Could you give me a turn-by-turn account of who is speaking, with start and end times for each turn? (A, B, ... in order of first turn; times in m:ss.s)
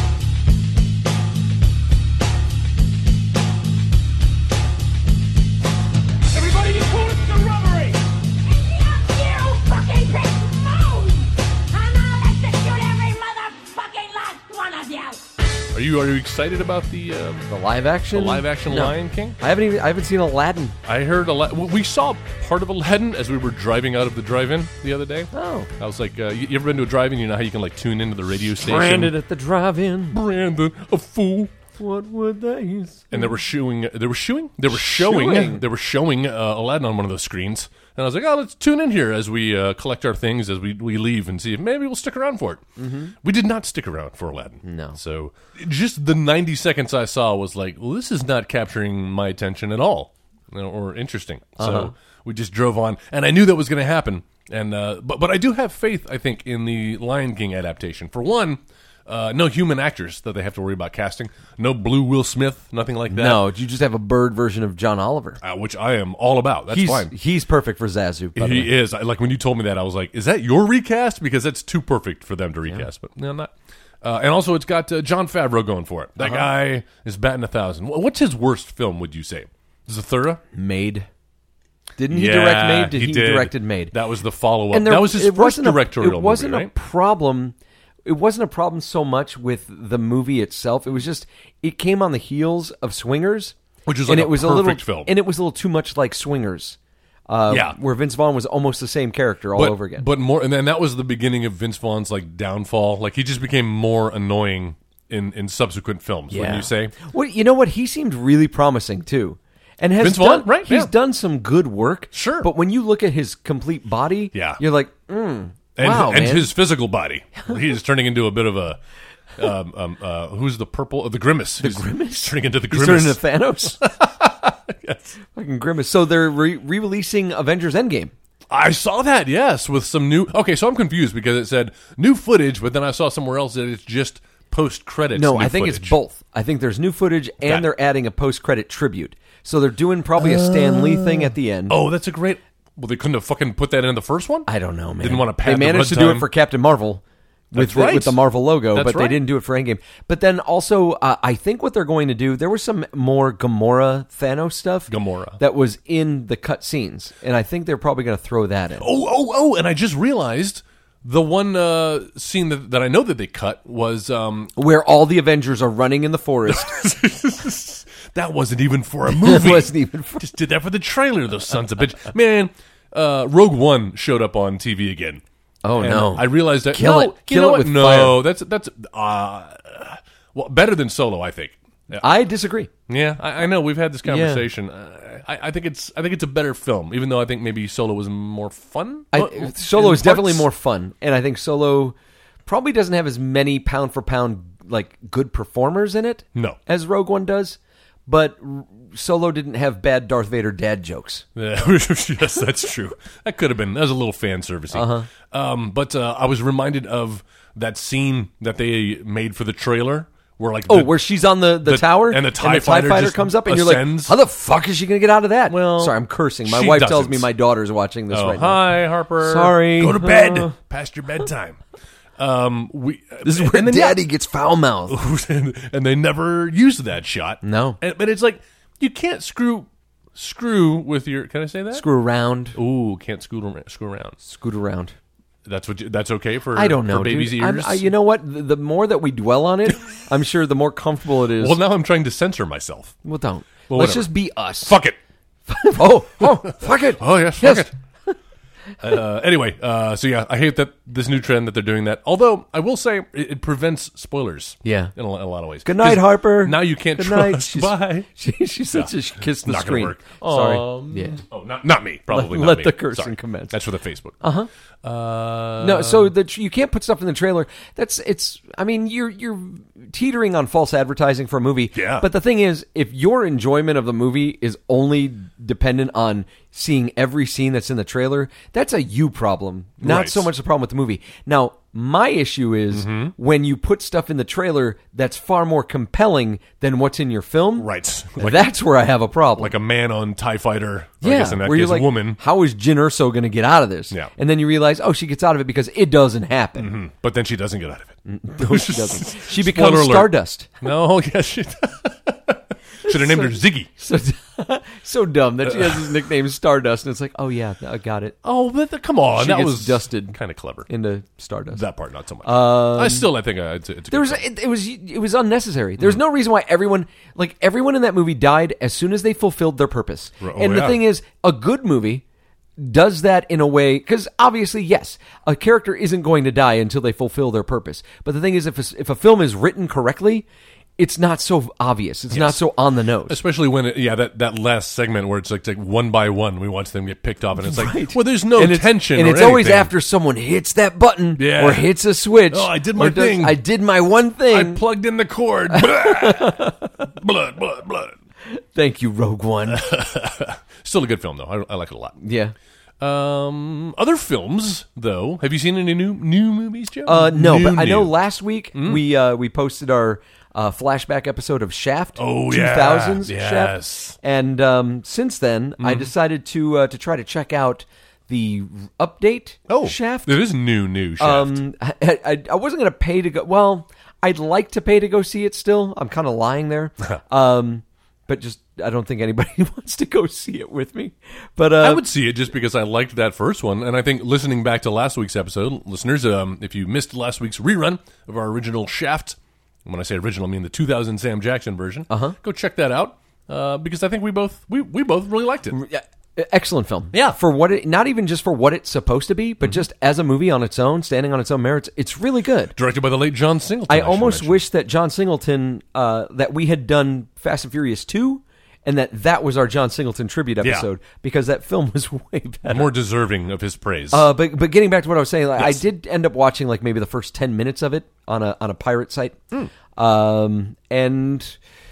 0:06.3-0:15.3 A
0:15.7-0:17.5 B
0:17.5-0:20.8 C
0:18.1-0:19.4 B
0:20.8-0:29.2 B
0:25.3-0:25.7 C
0:28.6-0:30.2 C
0:30.1-0:31.5 B
0:31.8-0:33.3 C
0:33.1-0:42.7 B
0:34.7-0:35.6 C
0:42.8-0:43.1 C
0:43.2-1:03.4 B
0:44.6-0:45.0 C
0:51.6-0:51.9 C
1:03.1-1:05.4 C
1:05.4-1:07.1 B
1:06.7-1:08.7 C
1:08.4-1:20.4 B
1:16.2-1:16.4 C
1:20.5-1:21.1 C
1:22.0-1:23.9 C
1:22.1-1:26.7 B
1:24.7-1:36.8 C
1:33.9-1:35.1 B
1:37.3-1:40.1 C
1:37.5-1:37.8 B
1:39.6-1:46.9 B
1:46.3-1:56.5 C
1:50.0-1:50.9 B
1:52.1-1:52.5 B
1:54.3-1:54.6 B
1:55.8-1:58.8 B
1:59.4-2:05.1 B
2:01.6-2:03.9 C
2:05.3-2:08.1 C
2:08.5-2:16.0 B
2:15.1-2:21.8 C
2:17.4-2:17.7 B
2:20.2-2:24.5 B
2:24.5-2:38.9 C
2:25.0-2:26.3 B
2:27.6-2:29.2 B
2:34.9-2:35.4 B
2:38.8-2:44.5 B
2:44.6-2:46.8 C
2:46.5-2:55.2 B
2:49.1-2:50.3 C
2:55.6-2:58.2 C
2:55.8-3:02.1 B
3:01.9-3:02.7 C
3:02.9-3:10.5 B
3:04.1-3:04.4 C
3:09.1-3:21.2 C
3:21.4-3:31.0 B
3:24.7-3:25.1 C
3:30.7-3:40.5 C
3:31.6-3:34.2 B
3:35.5-3:37.3 B
3:38.1-3:41.6 B
3:42.2-3:44.0 B
3:43.2-3:45.0 C
3:44.9-3:51.9 B
3:47.4-3:47.8 C
3:51.7-3:52.6 C
3:52.5-3:54.2 B
3:54.2-3:55.0 C
3:55.4-3:57.9 B
3:56.6-4:01.6 C
4:01.4-4:03.0 B
4:03.0-4:04.7 C
4:03.7-4:05.0 B
4:05.5-4:08.1 C
4:06.2-4:07.7 B
4:08.8-4:18.1 B
4:14.6-4:14.9 C
4:15.6-4:21.2 C
4:18.7-4:24.2 B
4:22.1-4:23.6 C
4:24.2-4:24.5 C
4:24.8-4:26.1 B
4:25.6-4:49.5 C
4:31.7-4:32.1 B
4:39.8-4:40.3 B
4:42.7-4:43.1 B
4:47.6-4:48.5 B
4:49.4-4:52.2 B
4:51.0-4:56.7 C
4:56.6-5:03.7 B
4:58.1-5:00.6 C
5:02.8-5:08.2 C
5:05.4-5:06.0 B
5:08.2-5:10.7 B
5:09.1-5:11.6 C
5:11.5-5:14.2 B
5:12.2-5:13.1 C
5:13.9-5:22.0 C
5:20.2-5:20.8 B
5:22.6-5:30.2 C
5:30.8-5:33.2 C
5:32.1-5:32.4 B
5:33.1-5:39.7 B
5:37.4-5:44.6 C
5:41.2-5:41.7 B
5:42.3-5:43.4 B
5:44.3-5:48.0 B
5:45.5-5:46.8 C
5:48.3-5:49.7 C
5:49.5-5:52.0 B
5:52.0-5:52.4 C
5:52.8-5:57.9 B
5:56.9-6:10.2 C
5:58.6-5:58.8 B
6:02.0-6:04.0 B
6:05.6-6:05.9 B
6:09.5-6:11.4 B
6:11.0-6:21.9 C
6:21.6-6:35.6 B
6:31.9-6:32.2 C
6:35.5-6:42.5 C
6:36.9-6:37.2 B
6:42.5-6:44.4 B
6:43.7-6:52.7 C
6:50.4-6:50.7 B
6:52.5-6:54.1 B
6:53.9-7:01.4 C